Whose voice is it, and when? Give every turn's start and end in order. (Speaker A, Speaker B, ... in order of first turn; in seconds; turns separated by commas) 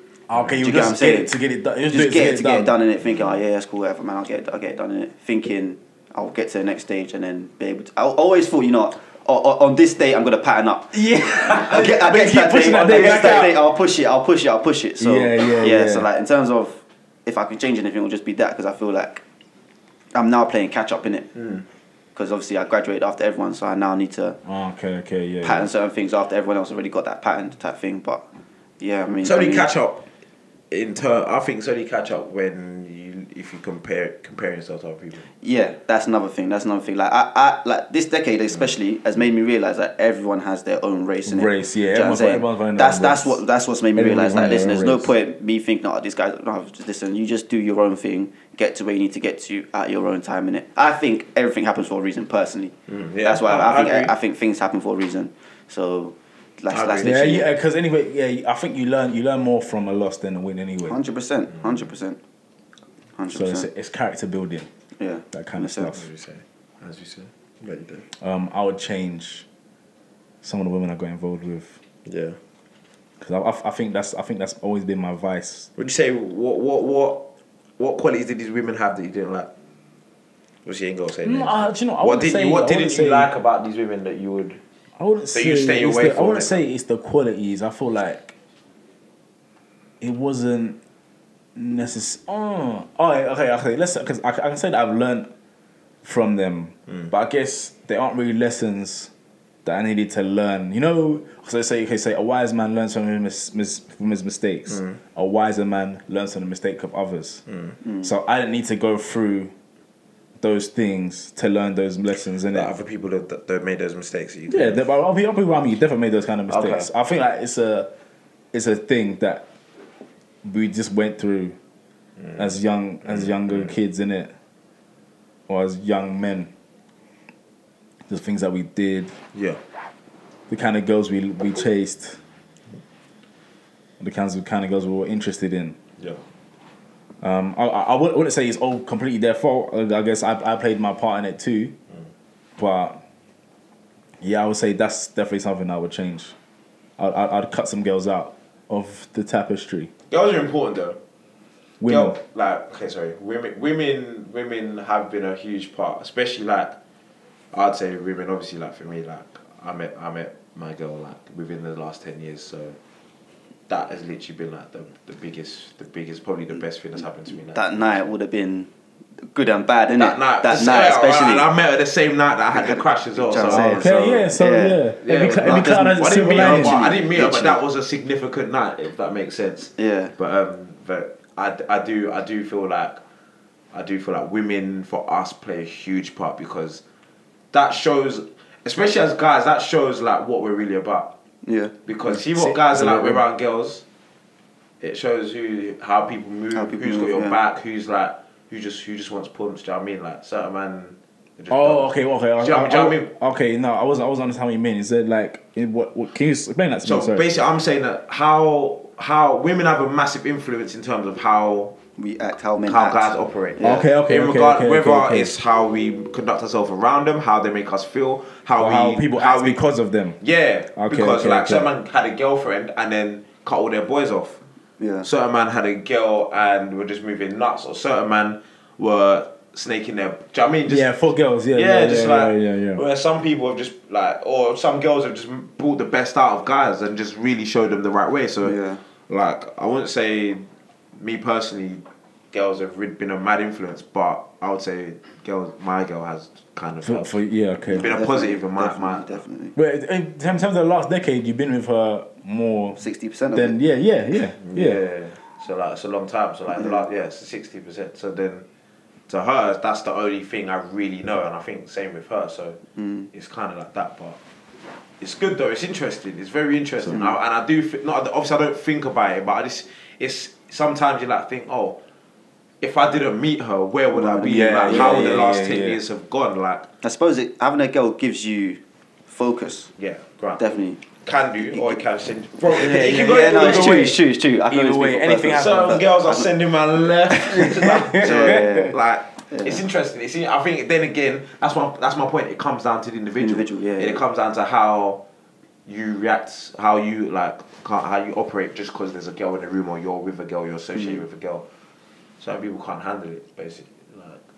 Speaker A: 0.3-2.7, Speaker B: 0.6-1.3, Speaker B: 1.9-19.2, Speaker A: 10.9-13.6, Speaker C: 12.7-13.4, Speaker A: 15.0-16.1, Speaker B: 20.1-21.3, Speaker C: 21.4-21.6, Speaker B: 22.1-24.4, Speaker A: 24.4-25.7, Speaker B: 25.4-28.2, Speaker B: 28.8-29.7, Speaker C: 29.2-30.1, Speaker C: 30.7-35.3, Speaker B: 35.4-57.5, Speaker A: 41.3-43.4, Speaker A: 43.9-45.1, Speaker C: 52.9-54.1, Speaker C: 56.7-57.4, Speaker A: 57.0-61.0, Speaker B: 60.9-62.2, Speaker B: 63.2-63.7, Speaker A: 63.3-64.7, Speaker B: 65.0-65.9, Speaker A: 65.3-66.1, Speaker C: 65.9-68.1, Speaker A: 68.2-69.5, Speaker A: 70.4-71.8, Speaker C: 72.1-72.4, Speaker A: 73.2-75.7, Speaker C: 75.8-77.2, Speaker C: 77.8-79.5, Speaker C: 80.6-84.6, Speaker A: 81.2-83.3, Speaker A: 85.0-88.3, Speaker C: 85.3-86.6, Speaker A: 90.0-90.8, Speaker A: 91.5-95.3, Speaker A: 96.0-99.1, Speaker A: 99.7-107.4, Speaker C: 104.7-105.0, Speaker C: 107.5-107.8, Speaker A: 108.0-109.5, Speaker A: 110.4-112.7, Speaker C: 112.5-114.8, Speaker A: 114.5-117.9, Speaker C: 116.5-116.9, Speaker A: 118.5-119.5, Speaker A: 120.4-121.6, Speaker C: 122.2-122.5, Speaker A: 122.4-124.3, Speaker C: 123.0-123.7, Speaker A: 125.5-126.5, Speaker A: 128.1-129.2, Speaker C: 129.3-129.6, Speaker A: 130.5-132.2, Speaker A: 134.0-135.8, Speaker A: 137.2-141.8, Speaker A: 142.6-143.0, Speaker A: 144.2-146.3, Speaker A: 147.0-149.9, Speaker C: 150.1-151.0, Speaker A: 151.8-152.2, Speaker C: 151.8-156.8, Speaker C: 157.5-162.8, Speaker C: 163.7-168.0, Speaker B: 167.5-168.7, Speaker B: 169.2-171.5, Speaker C: 170.0-174.3, Speaker B: 172.5-174.8, Speaker A: 173.5-176.8, Speaker C: 175.0-183.0, Speaker B: 175.4-177.6, Speaker B: 179.8-180.1, Speaker C: 183.7-186.8, Speaker C: 187.5-191.1, Speaker B: 191.4-191.7, Speaker C: 191.8-193.8, Speaker A: 192.1-193.2, Speaker C: 194.8-201.9, Speaker B: 196.5-197.4, Speaker A: 201.5-207.3, Speaker C: 202.4-203.1, Speaker C: 206.8-211.8, Speaker B: 212.0-213.9, Speaker C: 212.7-219.6, Speaker A: 213.6-215.3, Speaker A: 218.6-220.2, Speaker C: 220.2-224.4, Speaker A: 220.8-221.7, Speaker B: 224.8-225.1, Speaker C: 225.0-230.9, Speaker A: 230.7-232.8, Speaker C: 231.5-238.6, Speaker B: 238.4-238.8, Speaker C: 239.1-240.4, Speaker C: 241.0-247.2, Speaker A: 246.8-248.0, Speaker C: 247.7-249.2, Speaker B: 247.7-249.5, Speaker A: 249.6-252.8, Speaker B: 252.8-253.6, Speaker A: 253.3-254.8, Speaker C: 254.4-258.4, Speaker B: 256.5-256.8, Speaker C: 259.1-262.6, Speaker B: 262.8-263.1, Speaker C: 263.1-264.2, Speaker C: 265.0-271.8, Speaker B: 266.9-267.2, Speaker C: 272.6-276.7, Speaker B: 273.9-275.2, Speaker A: 274.2-275.8, Speaker B: 276.8-279.7, Speaker C: 279.8-280.4, Speaker B: 280.4-280.8, Speaker C: 281.0-283.9, Speaker B: 281.4-281.8, Speaker B: 282.5-286.3, Speaker A: 282.6-285.8, Speaker C: 285.3-295.0, Speaker A: 287.3-288.7, Speaker B: 287.4-288.8, Speaker B: 289.3-289.6, Speaker B: 293.2-294.0, Speaker C: 295.6-301.4, Speaker B: 300.8-301.0, Speaker C: 302.2-304.2